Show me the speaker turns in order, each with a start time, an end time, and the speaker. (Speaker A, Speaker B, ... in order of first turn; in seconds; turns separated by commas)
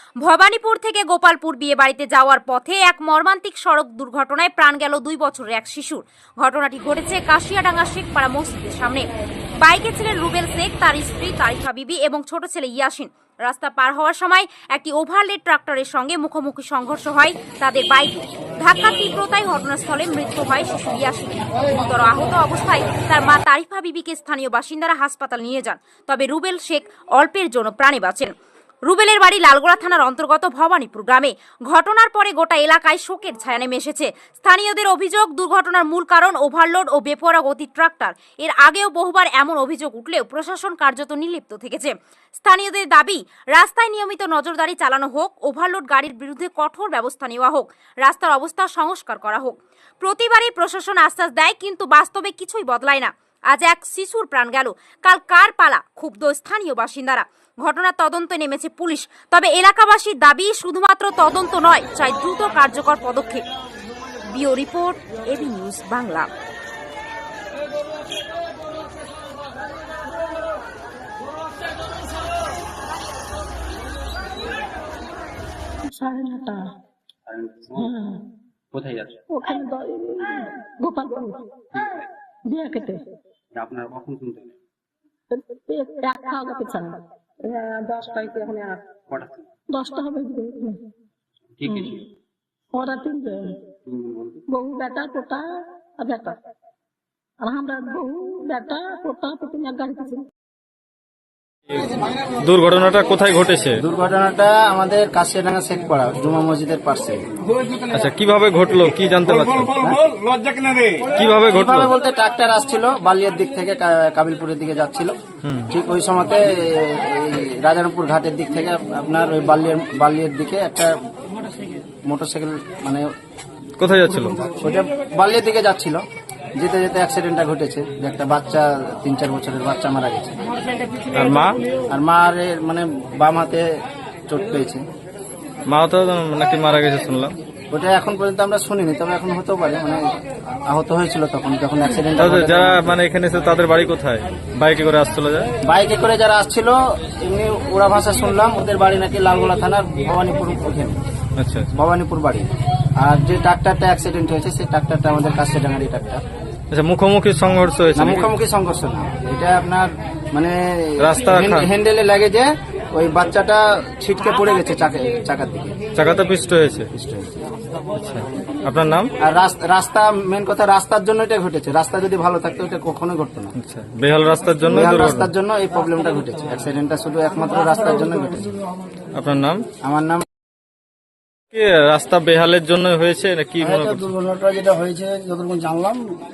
Speaker A: 0.2-9.1, Speaker A: 9.6-28.3, Speaker A: 28.9-63.4, Speaker A: 64.2-66.3, Speaker B: 75.8-76.7, Speaker C: 77.4-77.8, Speaker B: 77.8-78.3, Speaker C: 78.8-79.1, Speaker B: 79.3-81.5, Speaker B: 82.5-83.1, Speaker D: 83.6-84.2, Speaker C: 84.0-84.4, Speaker B: 85.4-88.8, Speaker B: 89.7-90.8, Speaker C: 91.7-92.0, Speaker B: 92.7-93.6, Speaker C: 94.0-94.4, Speaker B: 94.5-96.4, Speaker B: 97.4-100.3, Speaker E: 101.7-103.8, Speaker D: 103.8-107.2, Speaker E: 107.9-109.8, Speaker E: 111.2-111.9, Speaker D: 111.5-115.2, Speaker E: 115.4-115.7, Speaker D: 115.7-121.0, Speaker D: 122.1-123.1, Speaker E: 123.8-124.5, Speaker D: 124.6-126.0, Speaker D: 126.6-130.4, Speaker E: 131.2-131.6, Speaker D: 131.9-133.7, Speaker D: 134.3-134.8, Speaker E: 135.7-137.4, Speaker D: 137.7-140.0, Speaker D: 140.7-142.8, Speaker E: 142.2-145.5, Speaker D: 145.6-151.0, Speaker E: 151.4-151.7, Speaker D: 151.8-152.5, Speaker D: 153.0-156.2, Speaker E: 156.7-158.3, Speaker D: 158.0-165.8, Speaker E: 161.0-161.7, Speaker E: 166.0-166.9, Speaker D: 166.9-167.3, Speaker E: 168.0-169.1, Speaker D: 169.2-173.5, Speaker E: 173.6-175.3, Speaker D: 174.7-178.6, Speaker E: 179.2-179.7, Speaker D: 179.8-180.3, Speaker E: 181.5-184.1, Speaker D: 183.6-186.2